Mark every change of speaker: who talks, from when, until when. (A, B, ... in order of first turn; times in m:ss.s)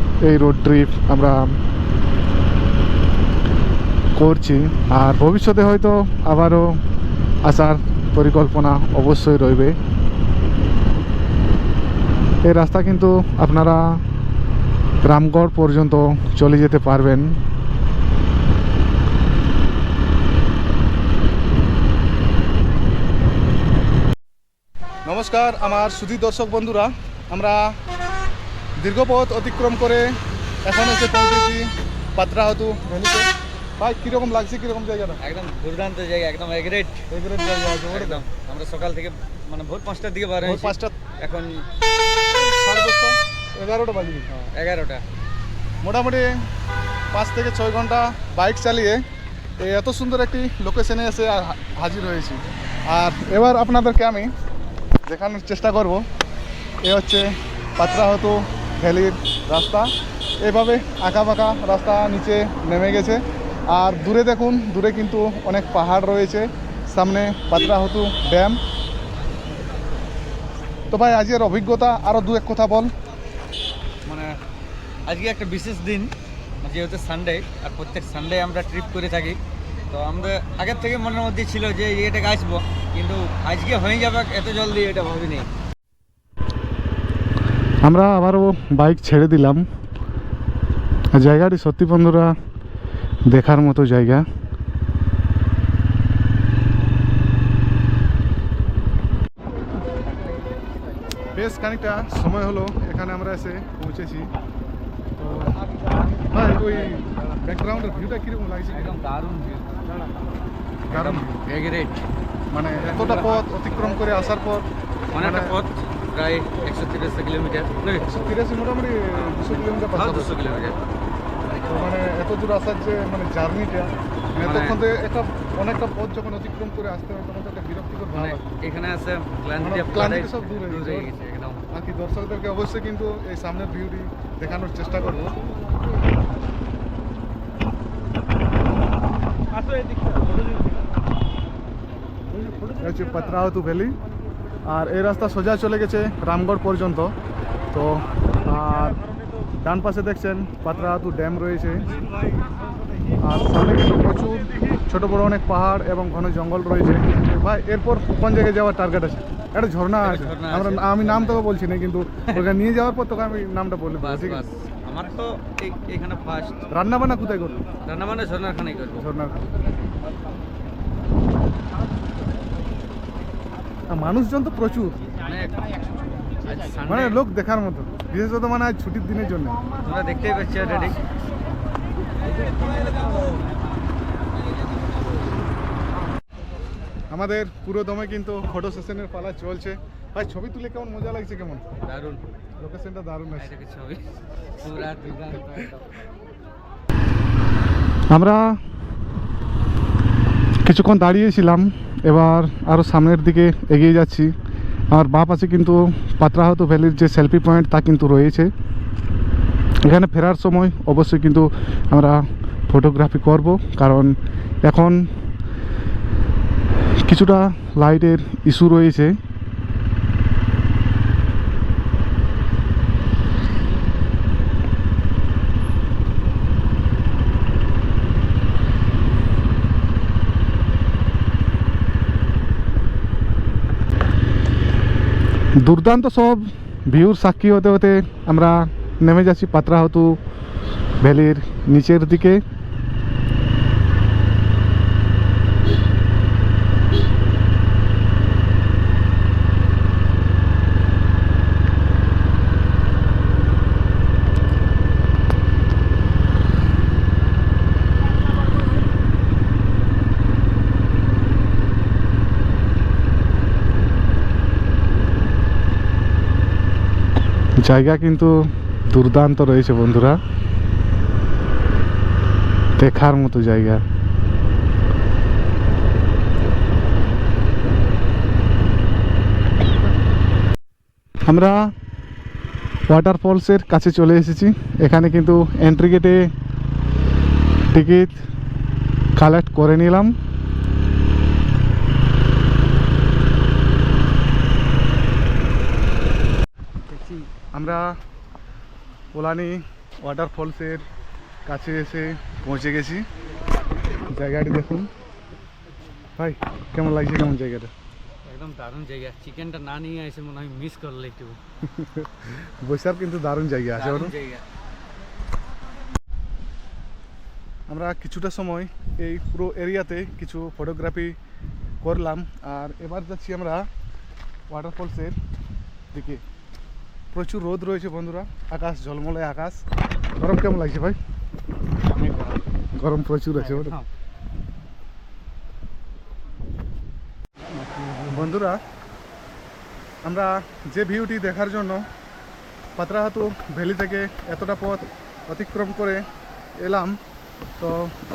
0:00.2-0:01.6 A
0:04.2-0:06.8 A
0:07.4-0:09.8 A
0:12.4-0:14.0 A
0:15.0-0:17.4 A
0:25.1-0:27.8 B
0:28.8-0:33.3 B
0:33.8-0:35.2 B
0:35.2-0:37.0 C
0:37.1-0:38.2 B
0:37.9-0:41.6 C
0:40.4-0:40.9 B
0:42.3-0:44.3 B
0:44.3-0:45.0 C
0:45.8-0:46.4 B
0:47.1-0:49.0 B
0:49.6-0:54.3 B
0:55.1-0:56.0 B
0:56.8-1:08.6 B
1:10.9-1:12.9 B
1:14.0-1:14.4 C
1:15.1-1:19.4 C
1:19.9-1:25.5 C
1:27.8-1:29.6 A
1:31.1-1:32.4 A
1:33.3-1:34.2 A
1:41.4-1:44.3 B
1:45.2-1:45.5 B
1:46.3-1:49.0 B
1:48.7-1:50.0 C
1:50.9-1:52.0 C
1:50.9-1:51.3 B
1:52.5-1:54.7 B
1:52.8-1:53.4 C
1:55.1-1:58.2 C
1:55.2-1:55.5 B
1:58.1-2:00.4 B
1:59.2-2:00.8 C
2:01.7-2:08.4 B
2:04.4-2:04.8 C
2:08.2-2:11.7 C
2:09.6-2:11.1 B
2:11.7-2:15.3 B
2:22.7-2:24.0 B
2:24.7-2:27.1 B
2:27.7-2:29.0 B
2:29.6-2:31.9 B
2:33.2-2:44.4 B
2:40.0-2:41.5 C
2:42.3-2:42.5 C
2:44.0-2:46.7 C
2:46.7-2:47.6 B
2:47.8-2:49.1 C
2:49.0-2:49.4 B
2:53.9-2:55.0 B
2:55.1-2:57.2 C
2:56.9-2:59.6 B
2:59.8-3:01.0 C
3:07.1-3:11.6 B
3:11.8-3:12.2 C
3:12.6-3:13.5 B
3:13.4-3:14.0 C
3:14.6-3:15.9 C
3:18.1-3:18.4 A
3:20.6-3:24.4 A
3:24.9-3:28.5 A
3:29.8-3:35.1 A
3:37.1-3:39.2 A
3:55.6-4:00.2 A
4:01.0-4:02.4 A
4:27.6-4:30.2 A
4:32.8-4:33.8 A
4:41.3-4:41.7 A
4:42.9-4:46.3 A
4:47.7-4:48.2 A
4:49.2-4:50.2 A
4:56.9-4:57.3 C
4:57.5-4:57.8 B
4:59.2-5:00.9 B
5:01.5-5:03.0 B
5:02.3-5:03.0 A
5:04.1-5:04.9 B
5:06.2-5:07.7 B
5:08.3-5:11.4 C
5:12.6-5:14.1 B
5:13.7-5:14.4 C
5:17.7-5:21.2 B
5:21.8-5:23.7 B
5:24.5-5:25.2 B
5:25.9-5:26.2 B
5:27.1-5:29.6 B
5:30.2-5:31.0 B
5:31.8-5:32.5 C
5:32.8-5:33.4 B
5:32.9-5:33.8 A
5:33.4-5:33.9 C
5:37.6-5:38.3 C
5:38.1-5:38.6 B
5:40.0-5:41.9 B
5:42.8-5:46.1 B
5:46.6-5:47.0 B
5:47.6-5:47.9 B